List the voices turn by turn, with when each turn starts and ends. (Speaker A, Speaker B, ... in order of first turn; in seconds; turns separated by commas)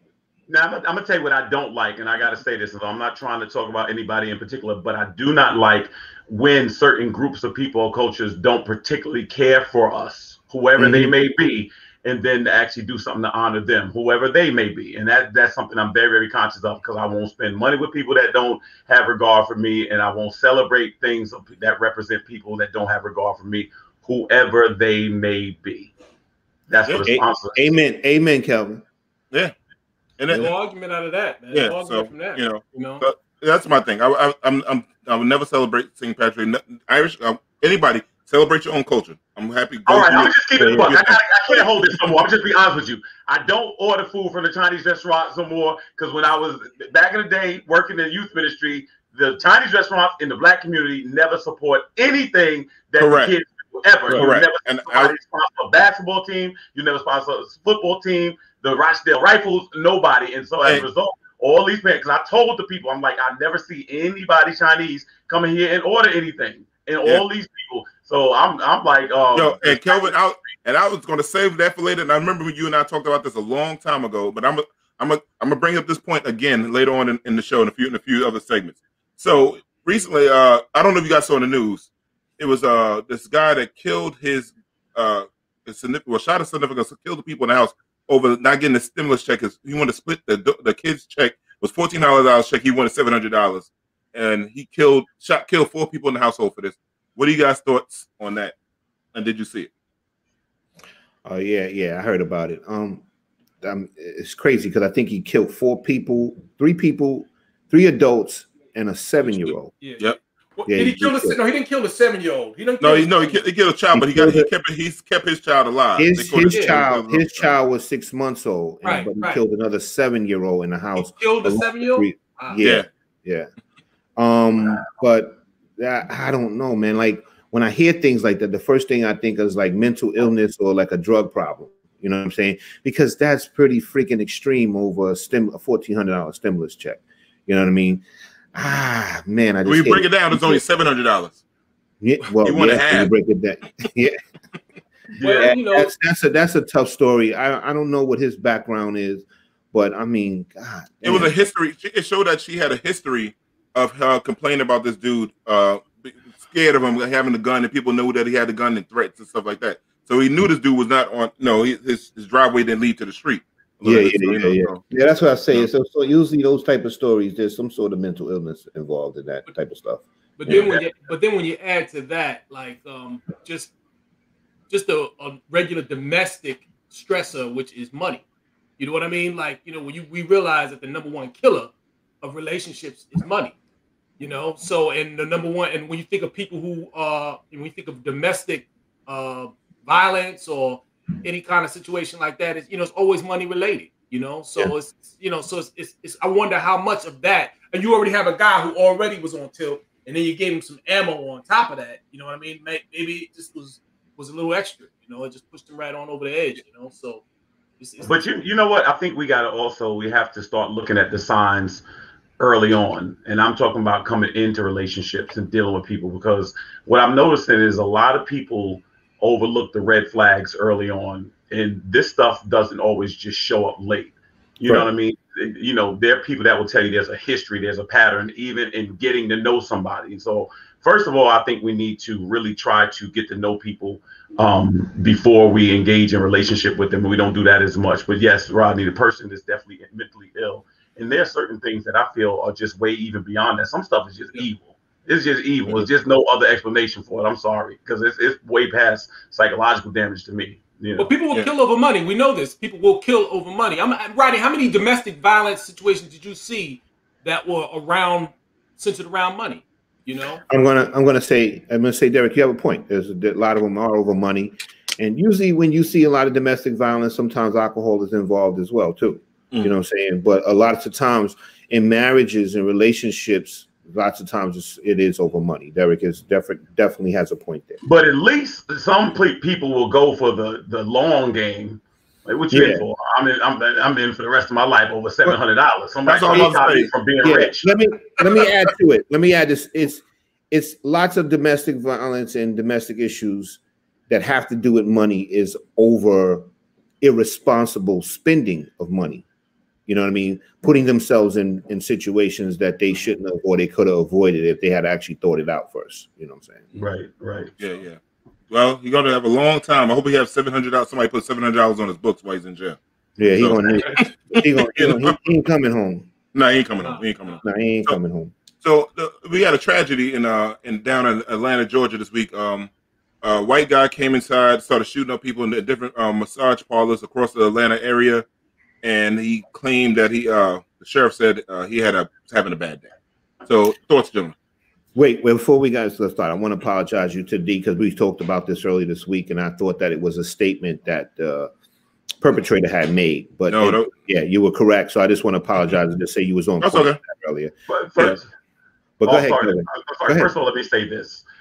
Speaker A: 0.5-25.9, Speaker B: 10.8-11.1, Speaker A: 26.7-27.7, Speaker B: 27.1-28.8, Speaker C: 30.2-30.5, Speaker D: 30.3-33.0, Speaker C: 31.5-41.2, Speaker A: 39.9-70.1, Speaker B: 40.6-40.9, Speaker C: 53.0-53.3, Speaker C: 54.1-55.1, Speaker C: 69.3-81.9, Speaker C: 82.4-98.5, Speaker C: 99.1-99.7, Speaker B: 101.2-103.0, Speaker B: 103.6-109.8, Speaker D: 109.8-113.4, Speaker B: 110.7-111.4, Speaker C: 112.8-117.5, Speaker B: 113.9-114.5, Speaker B: 116.0-123.5, Speaker D: 116.5-116.8, Speaker D: 118.8-119.4, Speaker D: 121.0-122.7, Speaker B: 124.2-140.6, Speaker C: 139.7-141.4, Speaker B: 142.0-144.2, Speaker C: 142.4-143.1, Speaker A: 145.2-145.6, Speaker D: 145.2-145.9, Speaker B: 145.4-151.3, Speaker C: 151.0-164.8, Speaker B: 163.8-170.7, Speaker D: 170.4-173.7, Speaker A: 170.5-170.8, Speaker D: 174.7-178.2, Speaker D: 178.8-183.6, Speaker D: 184.2-207.2, Speaker D: 207.8-208.4, Speaker A: 208.0-211.8, Speaker A: 212.4-251.1, Speaker D: 251.0-260.4, Speaker B: 260.5-277.8, Speaker A: 277.8-287.7, Speaker B: 282.5-282.8, Speaker C: 286.1-286.9, Speaker B: 287.2-296.5, Speaker B: 297.0-299.2, Speaker B: 299.9-306.7, Speaker A: 306.8-307.5, Speaker C: 307.6-308.0, Speaker C: 308.5-312.8, Speaker B: 313.2-316.1, Speaker C: 313.3-315.2, Speaker C: 316.3-318.0, Speaker D: 316.8-317.4, Speaker B: 317.4-318.3, Speaker C: 318.6-322.7, Speaker C: 323.2-328.3, Speaker C: 328.8-332.9, Speaker C: 333.4-334.3, Speaker B: 334.9-341.5, Speaker B: 342.2-347.5, Speaker C: 343.5-343.9, Speaker C: 346.6-347.0, Speaker A: 347.7-348.3, Speaker B: 349.0-350.3, Speaker A: 349.0-351.2